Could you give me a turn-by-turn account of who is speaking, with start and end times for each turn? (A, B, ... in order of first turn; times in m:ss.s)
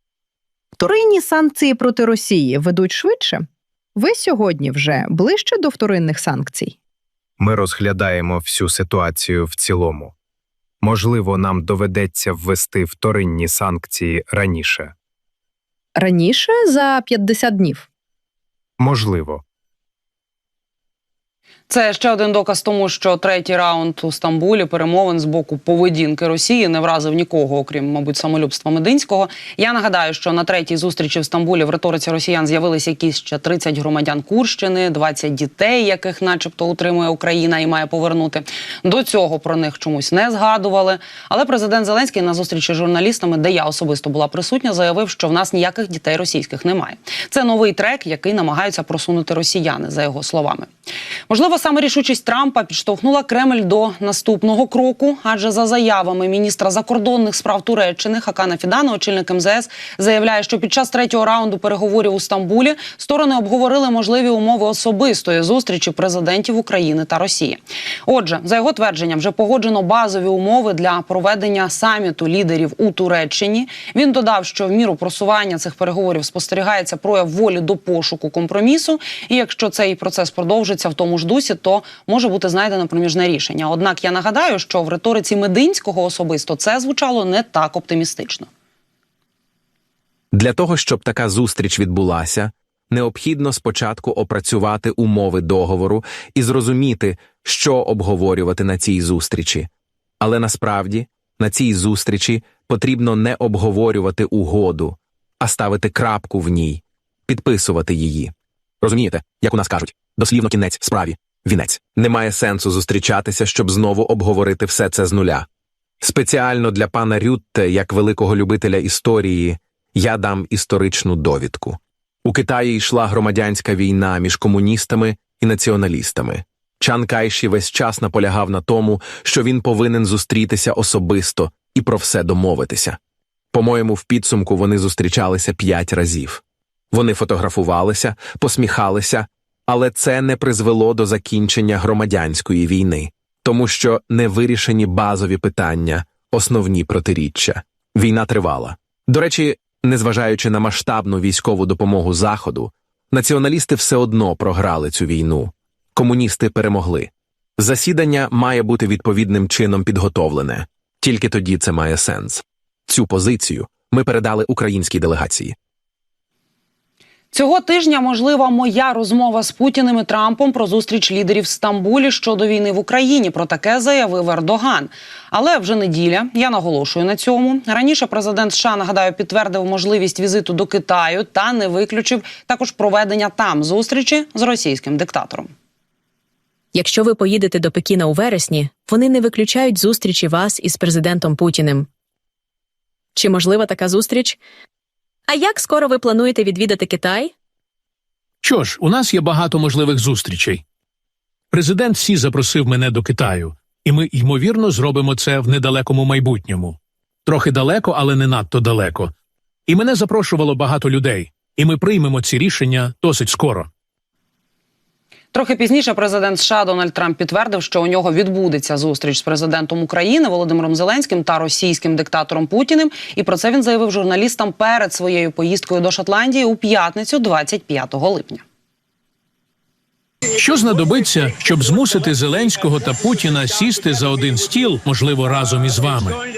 0:00.8-0:06.7 A
0:07.4-0:10.1 B
0:10.8-0:14.9 B
0:16.0-0:17.8 A
0:18.8-0:19.4 B
0:21.7-0:50.7 C
0:51.3-1:28.5 C
1:30.3-1:39.7 D
1:40.2-1:55.4 D
1:56.0-2:13.0 D
2:13.5-2:16.4 D
2:16.9-2:45.5 D
2:47.3-3:05.5 C
3:06.7-3:11.9 E
3:13.1-3:14.4 E
3:15.3-3:17.3 E
3:18.4-3:20.6 F
3:21.5-3:29.1 F
3:29.7-3:33.7 F
3:35.3-3:48.4 C
3:50.4-3:56.2 F